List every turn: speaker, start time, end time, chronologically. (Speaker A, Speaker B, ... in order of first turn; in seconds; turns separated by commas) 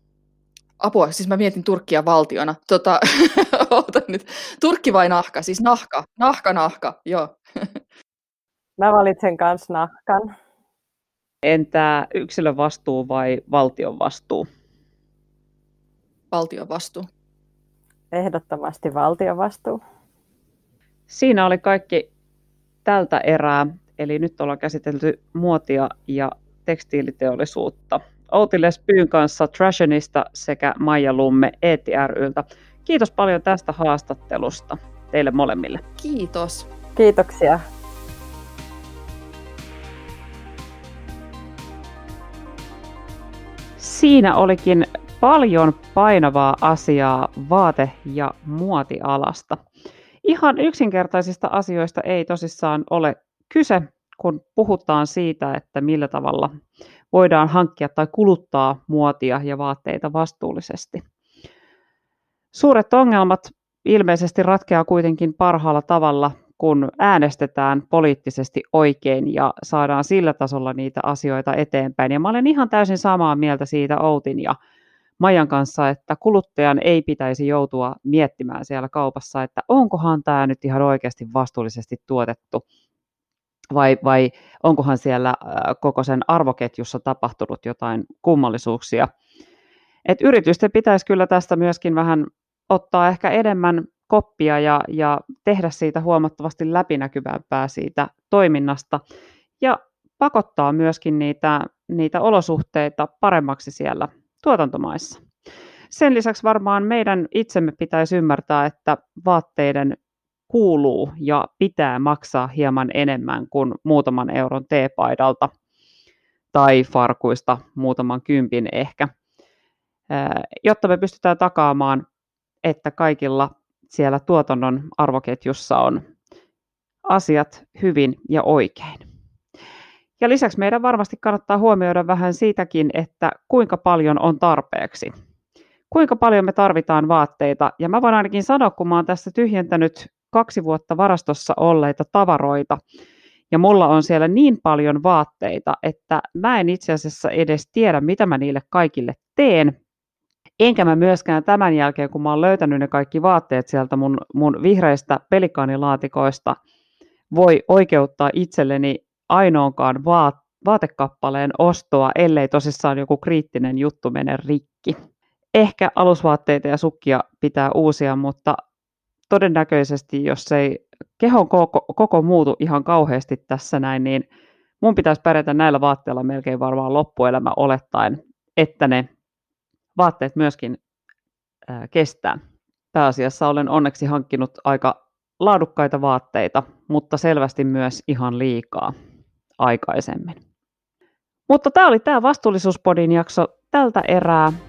Speaker A: 0.8-7.8, Speaker B: 8.8-10.3, Speaker C: 11.4-14.5, Speaker A: 16.3-17.1, Speaker B: 18.1-19.8, Speaker C: 21.1-22.1, Speaker C: 22.9-35.8, Speaker A: 36.0-36.7, Speaker B: 37.0-37.6, Speaker C: 43.8-49.6, Speaker C: 50.2-56.5, Speaker C: 57.1-61.0, Speaker C: 62.5-74.6, Speaker C: 75.2-82.6, Speaker C: 83.7-89.1, Speaker C: 90.1-99.0, Speaker C: 99.6-105.2, Speaker C: 105.9-110.0, Speaker C: 110.5-115.5, Speaker C: 116.5-119.1, Speaker C: 120.1-122.0, Speaker C: 122.6-126.0, Speaker C: 127.1-129.1, Speaker C: 130.2-135.1, Speaker C: 135.9-142.8, Speaker C: 143.5-149.7, Speaker C: 150.6-156.6, Speaker C: 157.3-165.0, Speaker C: 165.6-168.6, Speaker C: 169.3-174.2, Speaker C: 174.8-179.1, Speaker C: 180.0-180.8, Speaker C: 181.7-182.4, Speaker C: 182.9-188.9, Speaker C: 189.6-190.4, Speaker C: 191.5-194.6